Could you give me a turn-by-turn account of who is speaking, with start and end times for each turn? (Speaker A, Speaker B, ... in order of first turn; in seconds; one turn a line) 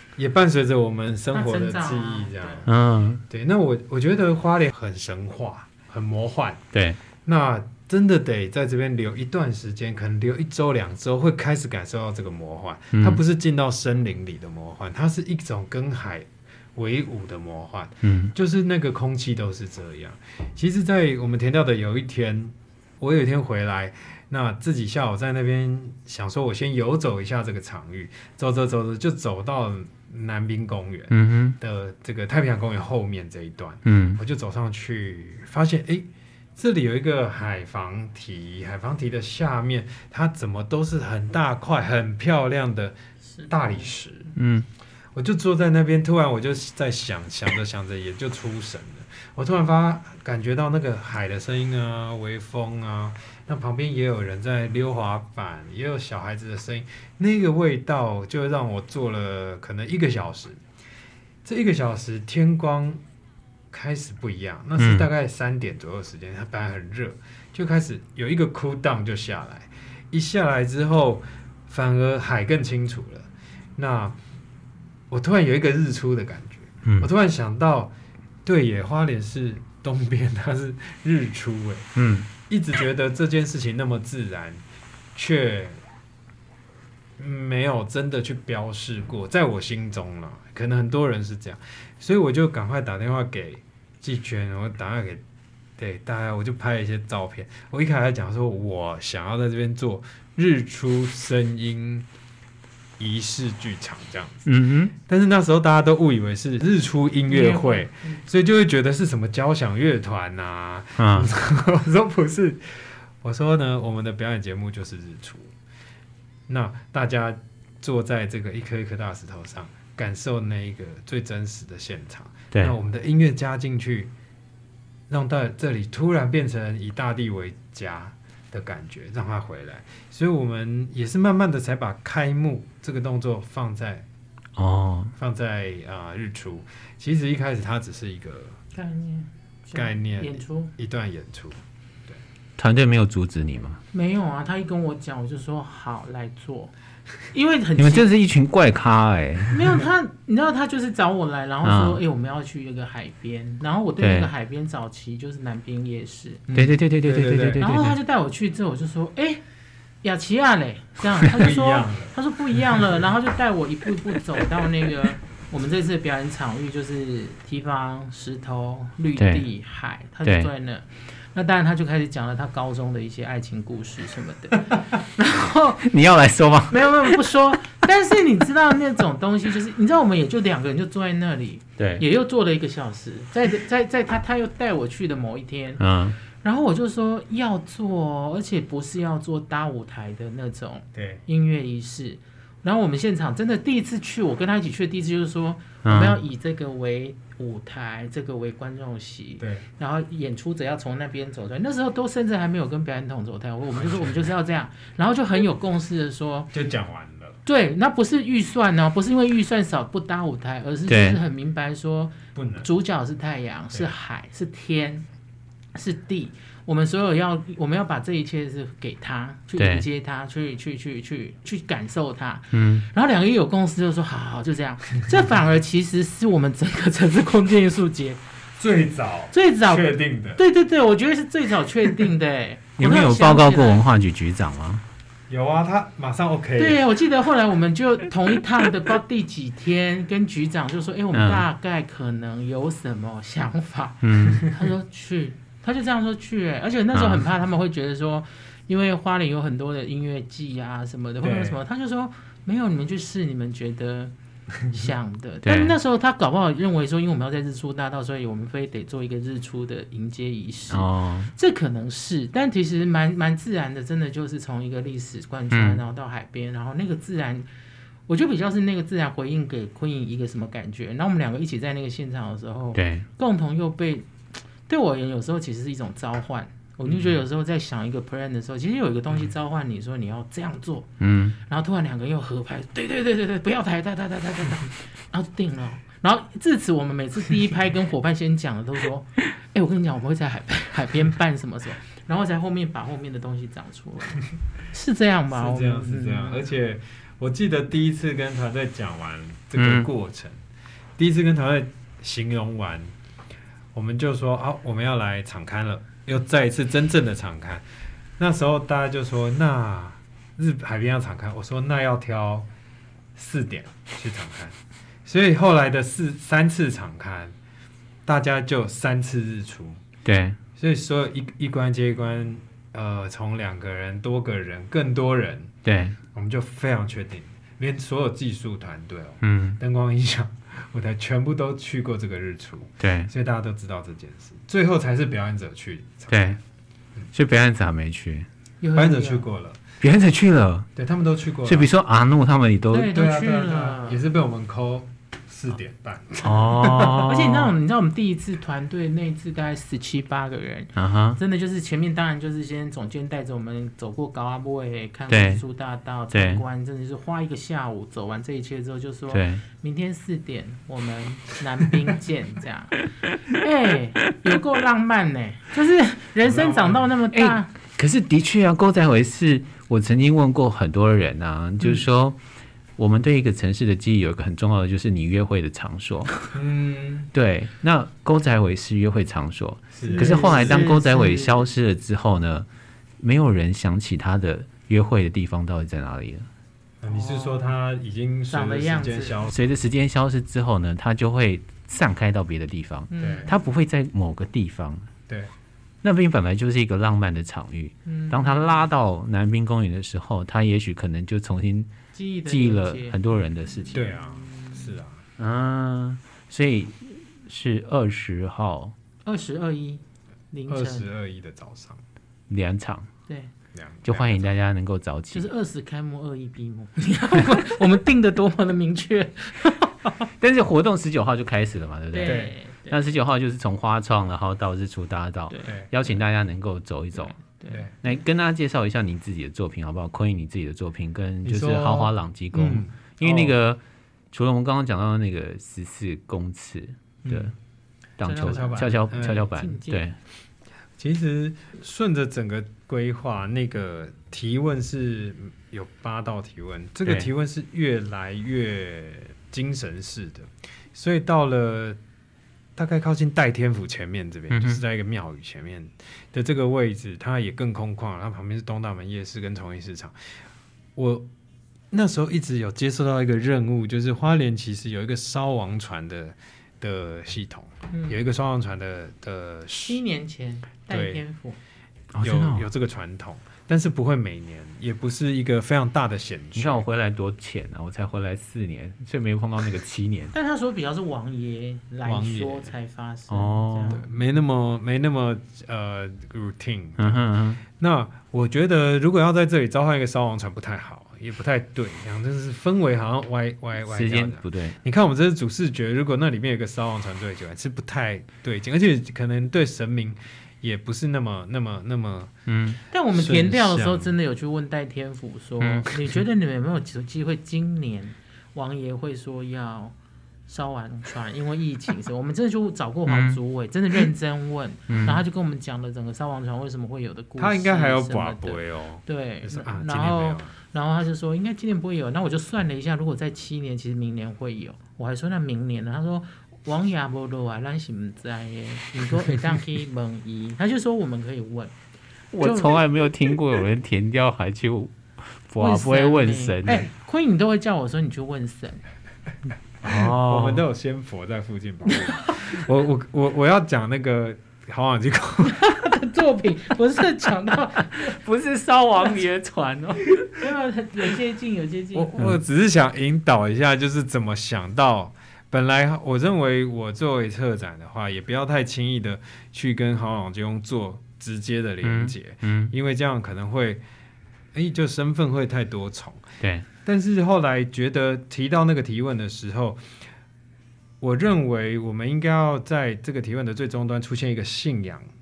Speaker A: 0.2-2.7
Speaker B: 1.3-2.7
Speaker C: 2.7-3.2
Speaker A: 3.3-6.6
Speaker C: 6.7-7.0
Speaker A: 7.2-43.0
Speaker C: 12.9-13.2
Speaker C: 18.0-18.3
Speaker C: 31.1-31.6
Speaker C: 33.9-34.2
Speaker B: 43.3-43.9
Speaker A: 43.5-44.3
Speaker C: 44.4-44.7
Speaker A: 45.1-60.6
Speaker A: 61.4-63.0
Speaker A: 63.7-74.2
Speaker C: 64.8-65.1
Speaker A: 75.1-77.9
Speaker C: 76.8-77.1
Speaker A: 78.5-81.9
Speaker C: 82.0-82.3
Speaker A: 82.5-84.6
Speaker A: 85.2-85.8
Speaker A: 87.2-95.2
Speaker A: 95.8-102.1
Speaker A: 103.0-115.5
Speaker C: 104.5-104.9
Speaker B: 107.3-108.2
Speaker C: 111.0-111.3
Speaker A: 116.5-124.1
Speaker A: 125.1-134.1
Speaker C: 134.6-135.1
Speaker A: 135.2-138.6
Speaker B: 138.7-140.7
Speaker A: 139.7-142.2
Speaker C: 142.6-143.8
Speaker B: 143.9-146.7
Speaker B: 147.3-148.1
Speaker C: 147.8-149.6
Speaker B: 149.5-156.4
Speaker C: 151.6-152.0
Speaker C: 154.0-154.3
Speaker A: 156.5-157.6
Speaker C: 156.5-158.0
Speaker B: 157.6-159.4
Speaker B: 160.0-175.9
Speaker A: 161.3-162.2
Speaker C: 169.2-169.5
Speaker C: 170.2-170.5
Speaker C: 175.8-177.2
Speaker B: 176.7-185.8
Speaker C: 181.8-182.0
Speaker C: 185.8-186.2
Speaker B: 186.3-206.5
Speaker A: 190.9-191.2
Speaker C: 195.8-196.2
Speaker A: 203.7-204.3
Speaker A: 206.5-207.4
Speaker B: 207.4-215.1
Speaker C: 210.9-211.2
Speaker A: 212.3-212.7
Speaker B: 215.8-228.2
Speaker C: 219.6-219.8
Speaker C: 222.5-222.8
Speaker A: 228.6-230.4
Speaker B: 229.3-233.8
Speaker C: 232.8-234.8
Speaker A: 235.3-236.8
Speaker B: 236.6-254.1
Speaker C: 241.1-241.5
Speaker C: 244.0-244.5
Speaker C: 246.9-247.2
Speaker A: 251.2-251.6
Speaker B: 254.7-267.5
Speaker C: 255.4-255.8
Speaker C: 260.7-261.3
Speaker C: 265.5-265.8
Speaker B: 268.1-274.1
Speaker C: 272.8-273.1
Speaker B: 274.6-296.4
Speaker C: 281.0-281.4
Speaker A: 295.3-300.4
Speaker C: 299.6-299.9
Speaker A: 301.0-302.9
Speaker A: 303.7-307.6
Speaker A: 308.2-312.5
Speaker A: 313.1-317.4
Speaker A: 318.1-319.8
Speaker C: 320.1-320.4
Speaker A: 320.6-325.5
Speaker C: 325.6-326.0
Speaker A: 326.1-336.4
Speaker C: 329.2-329.6
Speaker C: 332.8-333.1
Speaker C: 336.1-336.4
Speaker C: 337.1-338.3
Speaker B: 338.6-339.2
Speaker A: 338.8-339.6
Speaker C: 339.8-340.7
Speaker A: 340.8-341.7
Speaker C: 341.4-343.0
Speaker B: 342.7-344.0
Speaker A: 342.9-347.1
Speaker C: 346.2-347.5
Speaker B: 346.6-367.5
Speaker C: 350.8-351.2
Speaker C: 355.1-355.4
Speaker C: 356.1-356.4
Speaker C: 359.1-359.4
Speaker A: 366.2-366.9
Speaker C: 367.1-372.2
Speaker C: 372.8-376.2
Speaker A: 376.3-377.1
Speaker C: 377.1-382.5
Speaker A: 379.7-380.6
Speaker B: 379.9-381.4
Speaker C: 383.0-386.3
Speaker A: 386.8-389.4
Speaker B: 386.9-387.5
Speaker B: 388.3-389.2
Speaker C: 389.3-394.9
Speaker B: 392.9-393.4
Speaker A: 393.0-393.3
Speaker C: 395.8-401.7
Speaker B: 397.9-398.6
Speaker B: 401.9-404.8
Speaker C: 402.2-403.9
Speaker A: 403.7-405.0
Speaker C: 405.2-408.8
Speaker B: 409.1-410.9
Speaker A: 410.5-411.8
Speaker C: 412.3-412.9
Speaker A: 413.5-414.3
Speaker C: 413.9-415.3
Speaker B: 415.1-419.9
Speaker C: 420.2-427.2
Speaker B: 421.9-422.9
Speaker B: 427.0-428.0
Speaker C: 427.8-433.6
Speaker A: 431.2-433.4
Speaker C: 434.1-437.3
Speaker A: 437.1-437.3
Speaker C: 438.0-440.0
Speaker B: 438.0-439.8
Speaker A: 438.2-439.3
Speaker A: 440.8-451.8
Speaker A: 452.6-460.0
Speaker C: 454.3-454.6
Speaker A: 460.8-461.1
Speaker A: 461.7-469.8
Speaker B: 467.7-468.0
Speaker B: 469.6-471.4
Speaker A: 470.7-471.0
Speaker C: 471.9-472.5
Speaker A: 472.0-476.6
Speaker C: 476.4-480.1
Speaker B: 480.1-483.8
Speaker A: 481.8-482.5
Speaker C: 483.1-483.8
Speaker A: 483.7-502.1
Speaker C: 486.8-487.4
Speaker C: 493.7-494.6
Speaker C: 502.3-502.6
Speaker B: 502.7-509.8
Speaker A: 502.9-503.9
Speaker B: 510.3-531.5
Speaker C: 512.9-513.2
Speaker C: 514.7-515.0
Speaker A: 517.2-520.3
Speaker C: 532.1-536.7
Speaker B: 532.2-532.6
Speaker B: 535.4-538.6
Speaker C: 539.6-540.5
Speaker A: 539.7-545.5
Speaker B: 545.3-548.0
Speaker C: 547.6-550.3
Speaker B: 550.2-552.0
Speaker A: 551.7-563.6
Speaker C: 561.6-562.5
Speaker A: 564.3-566.1
Speaker C: 566.2-566.5
Speaker A: 566.6-569.7
Speaker A: 570.8-574.9